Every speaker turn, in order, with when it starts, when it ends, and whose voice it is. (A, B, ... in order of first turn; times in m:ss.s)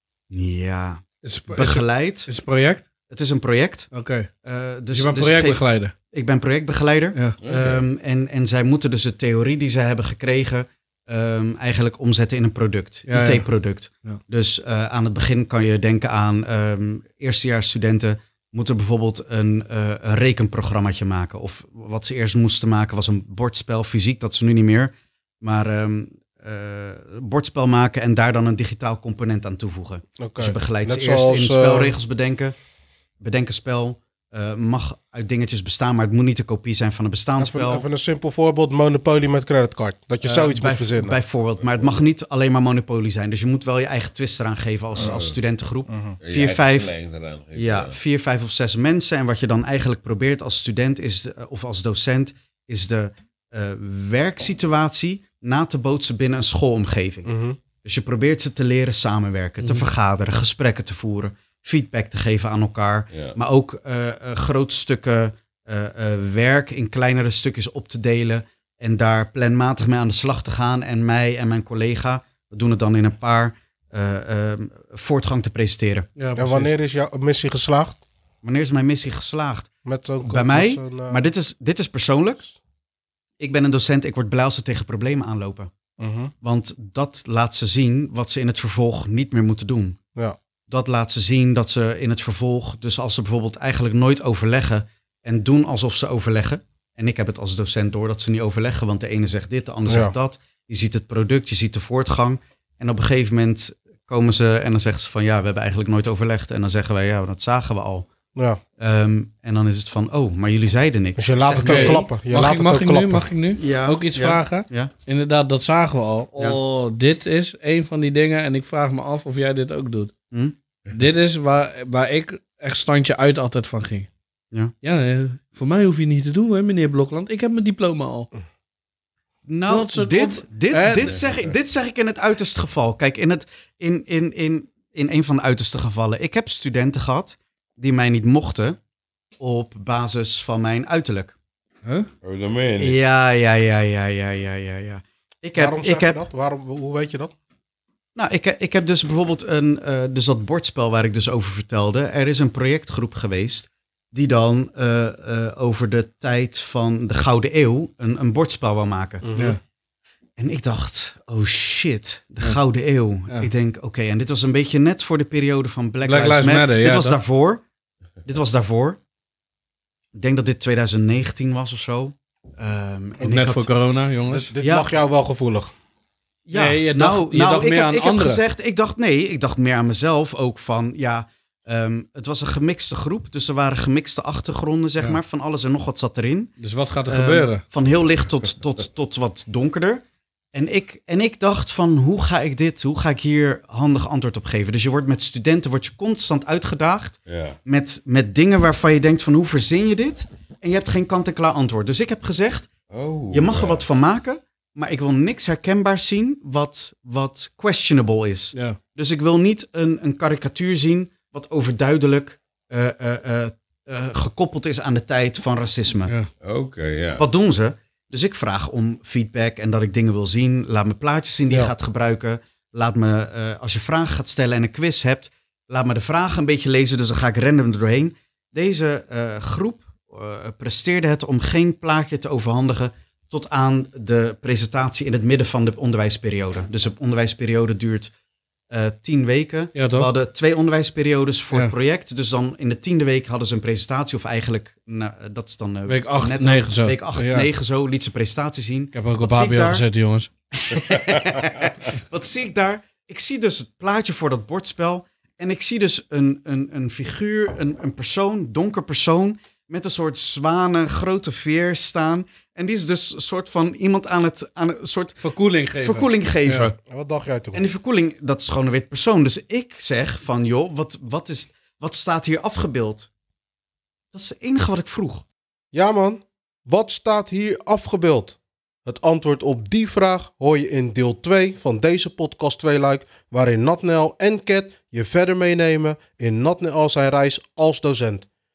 0:00.3-0:02.3 A
0:01.2-0:02.8 B
0:03.1-0:03.9 A
0:03.9-0:04.3 B
0:04.4-0:32.6 A
0:04.9-0:05.9 B
0:07.4-0:07.8 C
0:13.1-0:13.5 B
0:30.2-0:31.9 D
0:33.2-0:37.8 A
0:37.4-0:41.2 D
0:40.2-0:46.9 A
0:41.6-0:42.0 C
0:45.0-0:45.4 C
0:45.9-0:46.2 D
0:46.2-0:48.0 C
0:47.6-1:16.1 A
0:57.3-0:57.6 D
1:16.2-1:16.7 B
1:16.4-1:18.0 D
1:18.4-1:19.7 A
1:19.8-1:21.2 D
1:20.2-1:22.4 A
1:23.4-1:25.7 A
1:26.0-1:26.3 D
1:26.4-1:30.0 A
1:30.7-1:48.1 A
1:39.9-1:40.1 D
1:48.4-1:48.6 D
1:48.8-1:52.1 A
1:51.2-1:53.3 D
1:51.6-2:00.1 B
1:53.6-1:54.9 A
2:00.9-2:04.1 B
2:04.8-2:08.3 B
2:09.5-2:18.8 A
2:09.7-2:11.2 B
2:11.1-2:11.5 C
2:19.4-2:21.4 A
2:21.8-2:22.1 B
2:22.2-2:23.0 C
2:22.8-2:26.2 A
2:25.6-2:27.3 D
2:28.2-2:39.3 A
2:39.2-2:39.6 D
2:40.4-2:47.6 A
2:46.0-2:47.2 B
2:48.2-2:49.0 A
2:50.1-2:53.7 A
2:53.2-2:54.5 B
2:54.3-2:55.7 D
2:54.6-2:54.9 A
2:56.5-3:10.0 A
2:56.5-2:58.4 B
3:06.6-3:07.6 B
3:10.5-3:22.7 A
3:17.3-3:17.6 C
3:22.9-3:23.8 C
3:23.3-3:36.1 A
3:36.4-3:37.2 C
3:37.2-3:58.1 A
3:58.7-4:09.8 A
3:59.8-4:00.1 B
4:05.9-4:07.5 B
4:08.9-4:10.3 B
4:10.5-4:25.2 A
4:10.9-4:11.2 C
4:25.2-4:26.7 B
4:25.8-4:26.8 A
4:26.9-4:27.6 D
4:27.5-4:33.1 A
4:34.1-4:35.2 A
4:35.7-4:48.3 D